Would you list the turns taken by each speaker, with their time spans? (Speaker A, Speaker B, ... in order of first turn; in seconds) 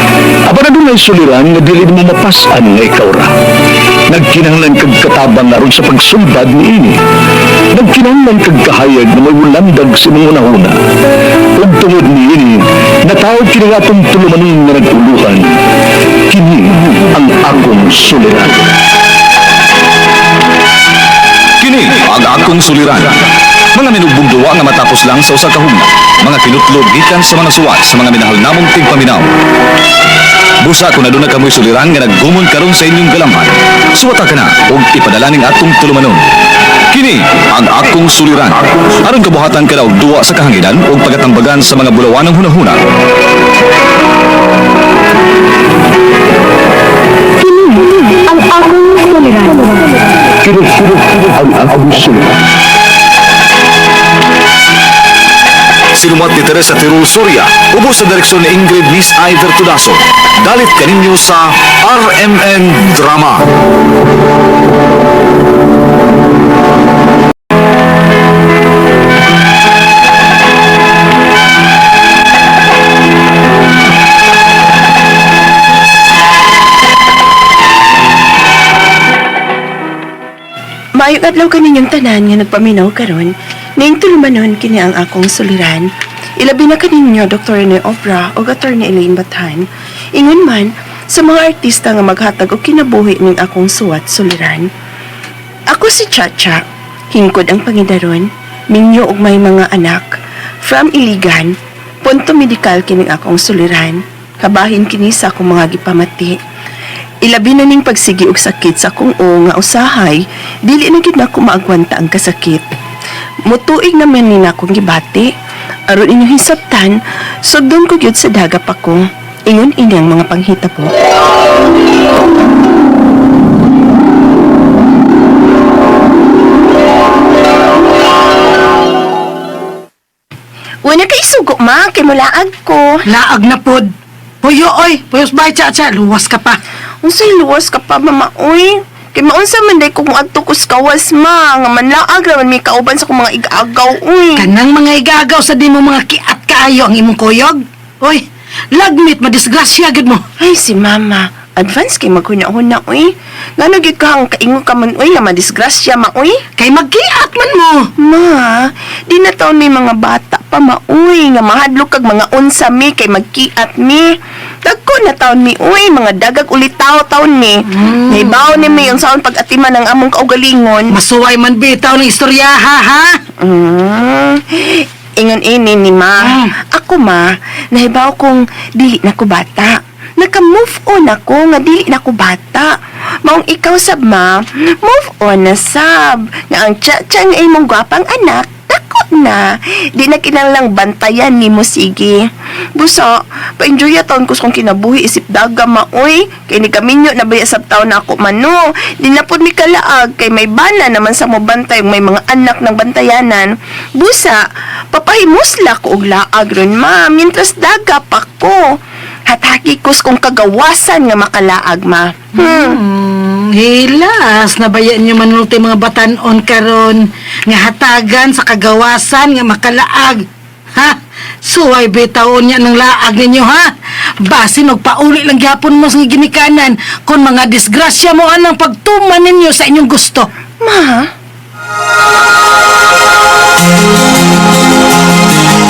Speaker A: 0.5-3.3, 4.1-7.0, 7.7-10.7, 11.6-15.5, 16.3-18.6, 50.4-52.3
Speaker B: 21.6-23.2, 23.7-29.3, 30.6-36.2, 36.9-42.8, 55.9-63.5
Speaker C: 47.5-49.9
Speaker D: 81.0-94.7, 95.7-106.4, 107.2-112.7, 113.5-115.3, 115.9-120.9, 130.8-133.0, 137.0-144.5, 150.4-156.4, 158.0-164.1, 164.7-170.9, 173.4-204.4, 204.9-212.8, 230.6-231.1
Speaker E: 133.1-133.9, 134.4-136.6, 144.4-150.2, 156.6-157.9, 167.7-168.9, 170.9-173.1, 176.2-176.5, 212.4-230.3